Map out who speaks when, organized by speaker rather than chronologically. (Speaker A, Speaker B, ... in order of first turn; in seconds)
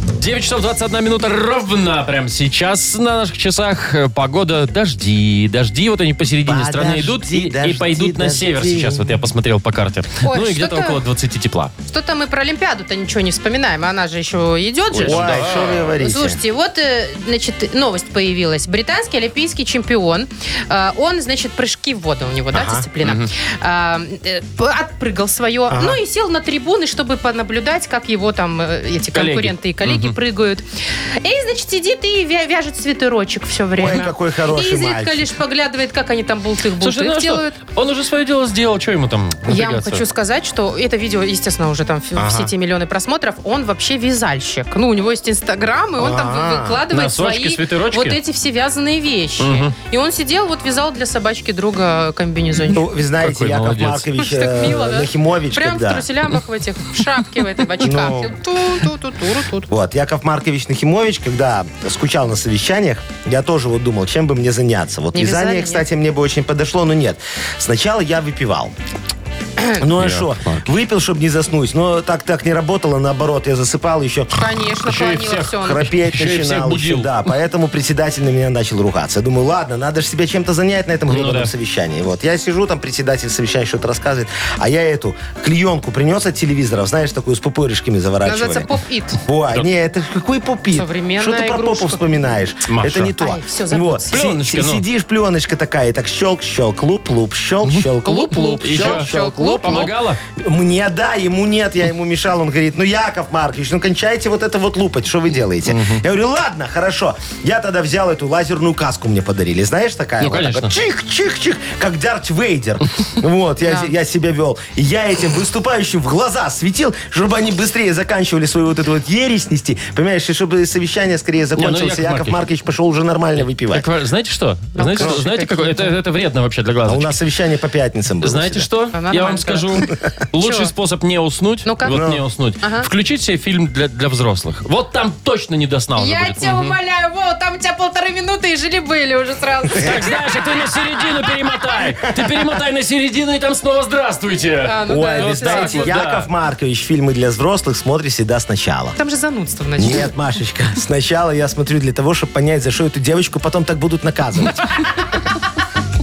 Speaker A: 0.2-11.7, 15.0-15.9, 23.0-23.3, 29.1-30.2, 36.8-40.0, 46.9-48.2, 49.4-49.7, 53.2-54.1, 70.0-70.6, 74.9-77.2, 81.1-81.5, 92.7-93.1, 94.1-94.8, 98.6-100.2, 105.7-106.0, 110.2-110.7, 121.6-122.4, 123.7-127.2, 128.2-136.8, 139.8-146.3
Speaker B: 6.4-9.2, 14.9-16.4, 22.5-22.9, 25.7-26.0, 33.8-35.3, 42.2-42.5, 46.0-46.8, 52.7-56.1, 57.8-58.4, 59.7-68.7, 69.8-74.3, 75.5-88.7, 89.2-123.9, 125.0-125.2, 126.9-128.7, 131.9-132.2, 144.9-149.0, 149.8-154.7
Speaker C: 10.2-11.0, 11.9-30.6, 31.2-37.6, 39.5-52.9, 54.2-59.7, 65.1-65.9, 74.3-75.9, 88.2-89.2, 90.7-92.0, 93.2-94.2, 98.0-99.9, 113.7-113.9, 124.8-125.9, 128.9-130.7, 131.7-132.0, 132.6-132.9, 136.0-140.2, 144.6-145.9, 149.0-150.1